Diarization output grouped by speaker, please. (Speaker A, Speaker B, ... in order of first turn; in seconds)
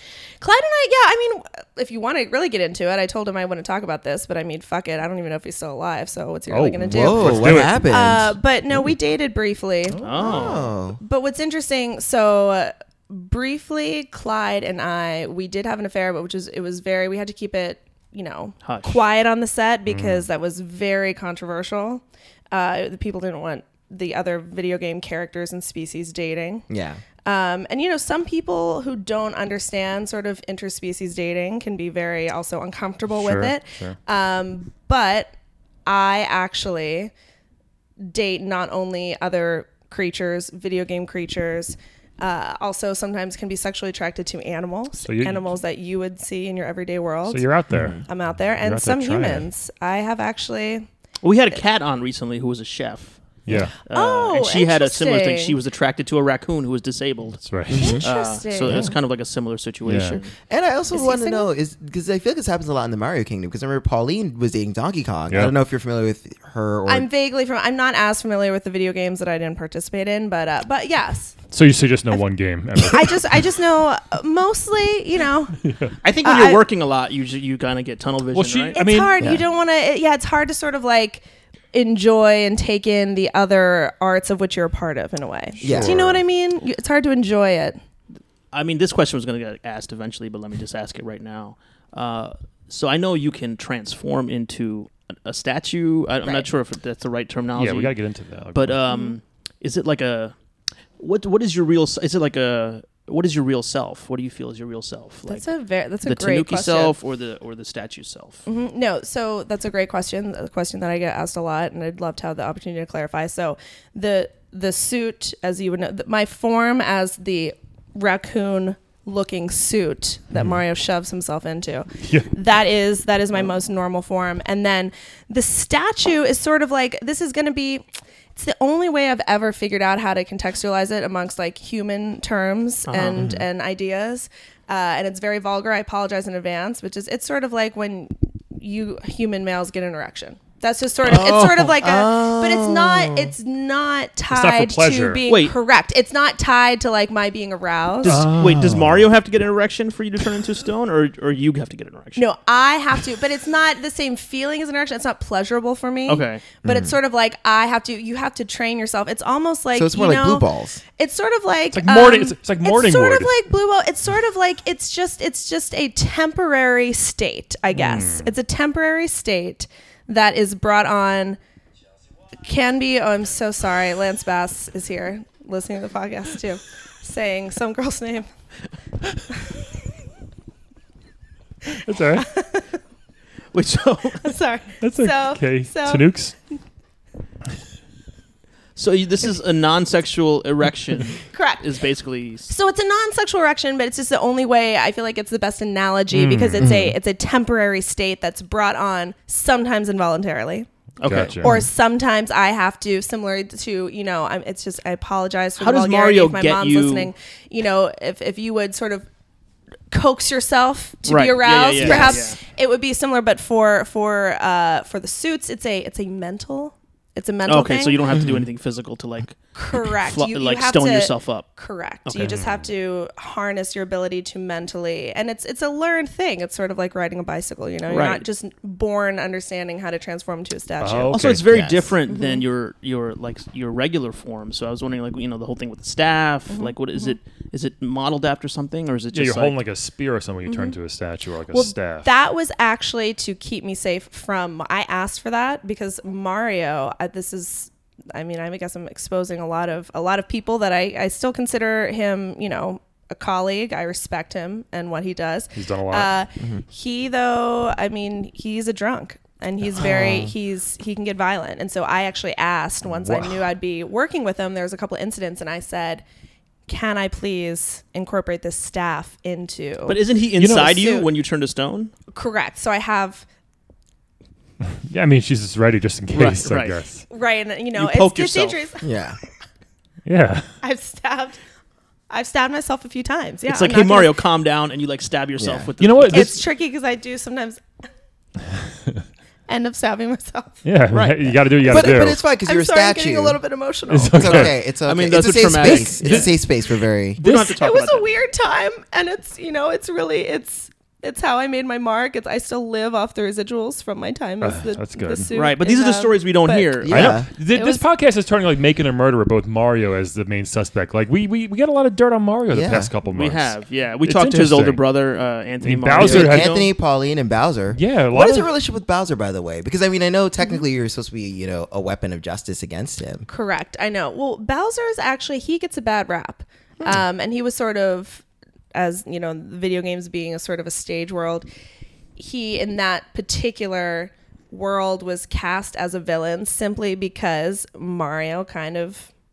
Speaker A: 0.4-26.7, 27.2-35.3, 35.9-37.1, 38.0-47.5, 48.1-50.9, 53.9-55.6, 57.8-58.9, 60.9-61.5, 66.9-71.4, 72.8-75.6, 76.2-76.6, 78.7-87.8, 98.9-99.2, 105.3-107.0, 108.5-127.8, 128.3-148.3, 152.2-160.4, 161.0-171.4, 172.4-178.3, 182.2-182.7, 184.2-186.1, 191.3-191.7, 192.5-200.7, 201.4-209.1, 209.9-218.1, 219.5-231.2, 232.1-232.4, 236.5-237.2, 240.5-240.8, 241.5-266.0, 266.7-270.0, 270.5-271.1, 272.1-273.3, 277.1-278.9, 280.6-281.4, 282.1-284.1, 286.0-287.6, 289.5-290.6, 292.4-294.5, 297.3-307.9, 323.3-328.2, 328.7-331.5, 332.2-339.1
Speaker B: 6.5-7.8, 9.9-10.5, 33.1-34.0, 45.0-45.5, 47.3-48.0, 48.6-49.5, 53.5-53.7, 57.4-58.0, 59.9-60.2, 65.3-65.5, 71.5-73.3, 75.7-75.9, 78.3-79.2, 85.7-86.2, 97.5-98.8, 122.0-122.3, 144.3-145.2, 148.0-149.1, 161.7-163.3, 167.7-168.3, 181.8-182.3, 184.8-186.3, 196.1-196.7, 201.1-201.6, 222.2-222.7, 230.8-231.7, 239.1-242.1, 255.6-256.1, 262.9-263.4, 270.4-270.8, 274.9-277.0, 280.1-280.5, 285.8-286.4, 290.6-292.2, 293.9-294.6, 295.6-296.4, 297.2-297.5, 304.4-305.3, 306.9-314.8, 315.6-316.6, 317.7-318.5
Speaker C: 6.9-8.4, 10.2-11.0, 26.7-27.0, 47.7-48.0, 57.7-58.0, 60.5-67.1, 85.6-86.2, 133.2-133.4, 141.1-143.3, 156.6-156.9, 159.7-160.8, 196.6-196.9, 211.8-212.2, 231.5-231.9, 259.8-260.3, 278.8-279.2, 285.4-285.7, 291.6-293.4, 294.1-297.2, 306.9-307.3, 312.5-312.9, 315.9-323.3
Speaker D: 10.0-10.7, 18.6-19.0, 51.2-57.4, 58.0-60.3, 76.0-78.8, 88.5-98.0, 98.5-100.3, 101.0-105.5, 106.0-108.4, 132.9-133.3, 141.1-141.4, 145.3-145.5, 148.0-152.2, 156.1-156.4, 183.5-184.3, 188.8-192.5, 201.0-201.6, 205.6-207.1, 211.1-212.4, 217.5-221.5, 222.1-222.3, 227.9-228.2, 231.1-239.6, 269.9-271.9, 276.1-276.8, 277.8-278.6, 283.5-286.4, 290.9-291.4, 294.8-296.4, 297.2-298.1, 305.3-307.1, 313.1-316.7